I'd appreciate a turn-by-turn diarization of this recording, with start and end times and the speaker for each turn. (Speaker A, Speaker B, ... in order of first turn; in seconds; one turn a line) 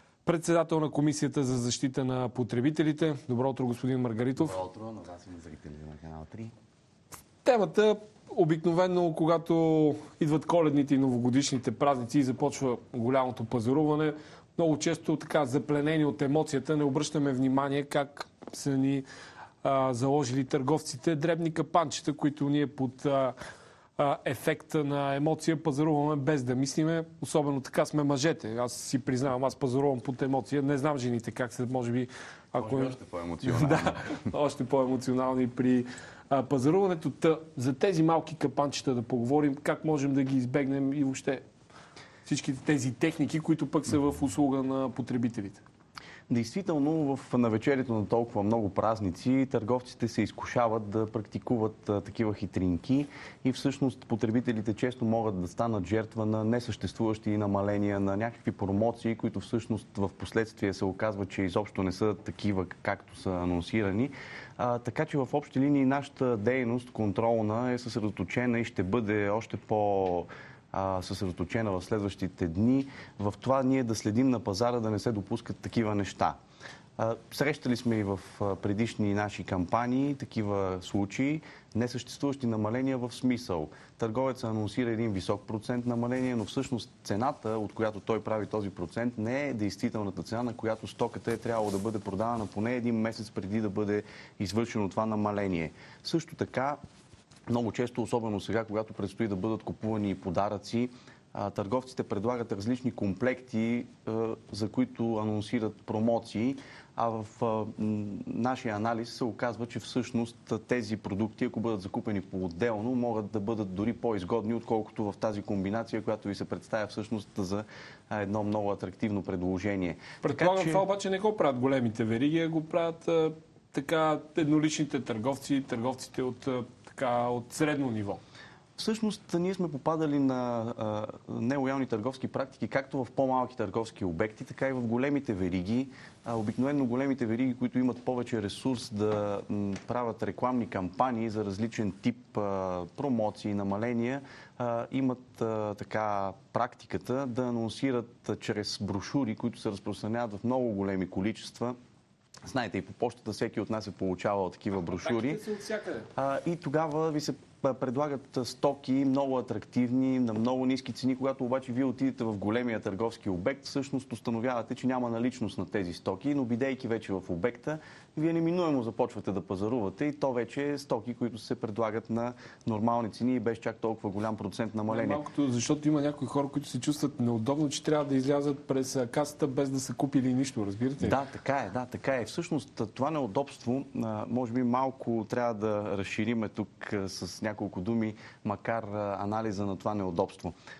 Speaker A: 0.2-4.6
Speaker B: 4.3-6.5
Speaker A: 7.4-19.1
Speaker A: 19.6-23.3
Speaker A: 24.0-41.4
Speaker B: 32.6-34.2
Speaker A: 42.3-45.6
Speaker B: 46.3-76.4
Speaker B: 77.0-96.8
Speaker B: 97.5-120.8
Speaker A: 120.2-128.2
Speaker B: 128.8-151.8
Speaker B: 152.5-155.4
Speaker A: 154.8-156.1
Speaker B: 156.2-175.2
Speaker A: 174.9-181.2
Speaker B: 181.0-190.6